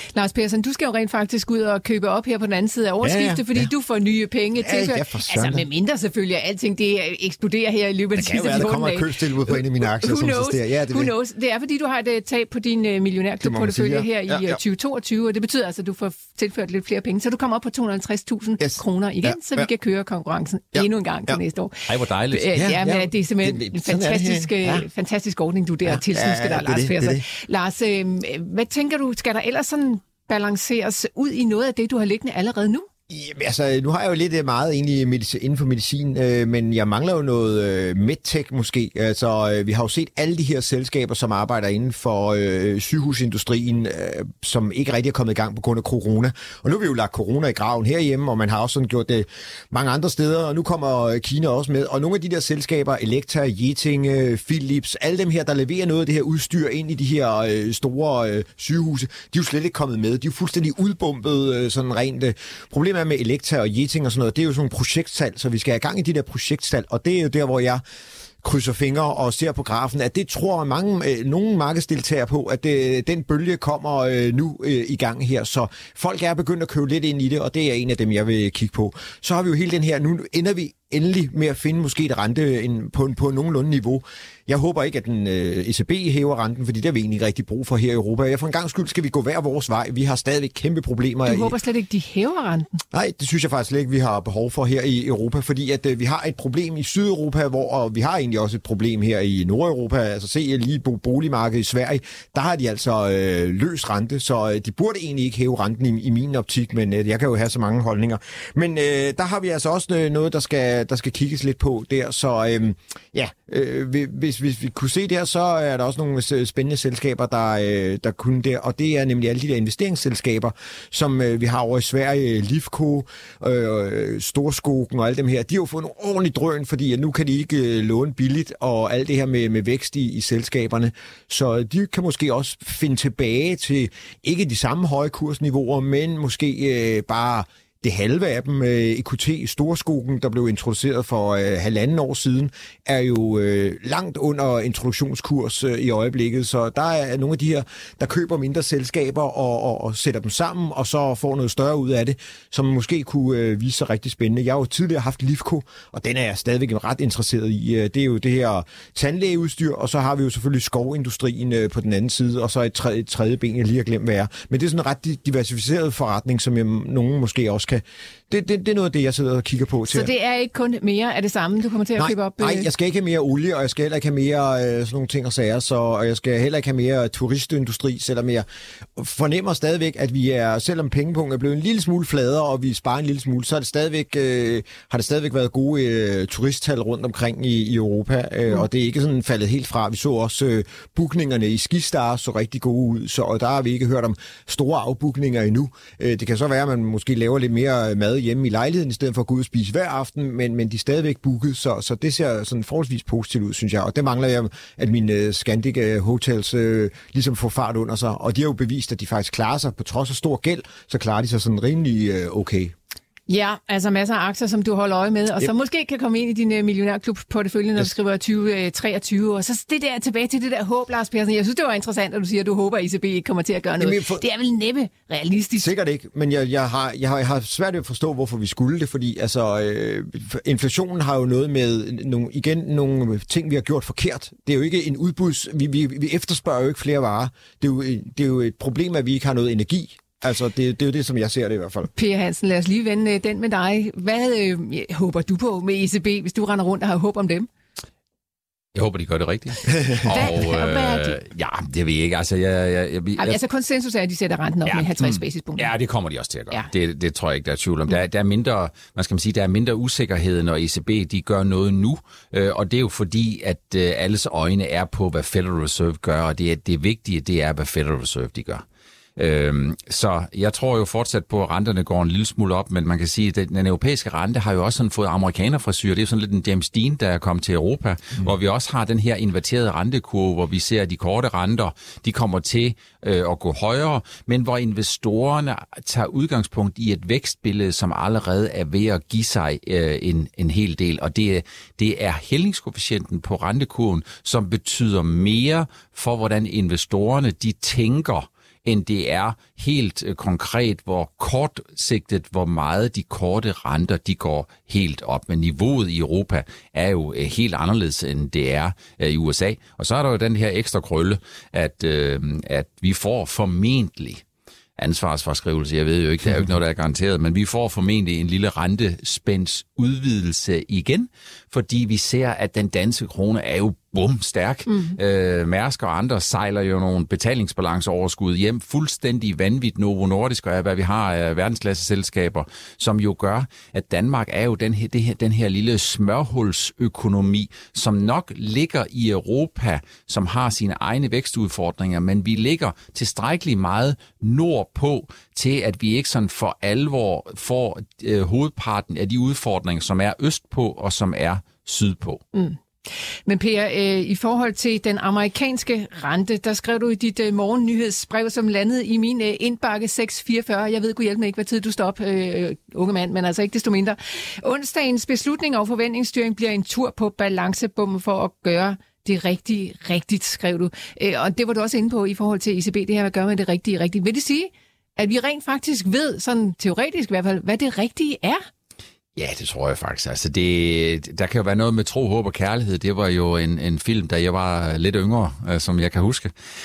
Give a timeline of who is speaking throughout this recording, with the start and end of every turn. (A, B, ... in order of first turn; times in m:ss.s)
0:00.2-0:32.9 A
0:03.0-0:03.7 B
0:04.6-0:05.6 B
0:08.2-0:11.1 B
0:13.4-0:14.6 B
0:18.6-0:19.7 B
0:20.8-0:21.4 B
0:21.9-0:22.6 C
0:22.6-0:24.9 B
0:25.9-0:27.2 B
0:33.1-1:07.8 B
1:08.4-1:31.5 B
1:31.2-1:32.8 A
1:32.9-2:50.1 B
2:49.9-2:52.7 A
2:52.0-2:58.5 B
2:59.0-3:32.8 B
3:33.3-3:45.7 A
3:43.8-3:44.2 B
3:45.6-4:01.9 B
4:01.9-4:07.5 A
4:08.8-4:13.4 C
4:10.0-4:11.2 A
4:13.2-4:15.7 A
4:14.7-4:28.6 C
4:29.2-5:14.2 C
5:14.8-5:52.2 C
5:24.7-5:25.0 A
5:52.3-5:52.6 A
5:53.3-6:18.4 A
6:19.2-6:26.3 C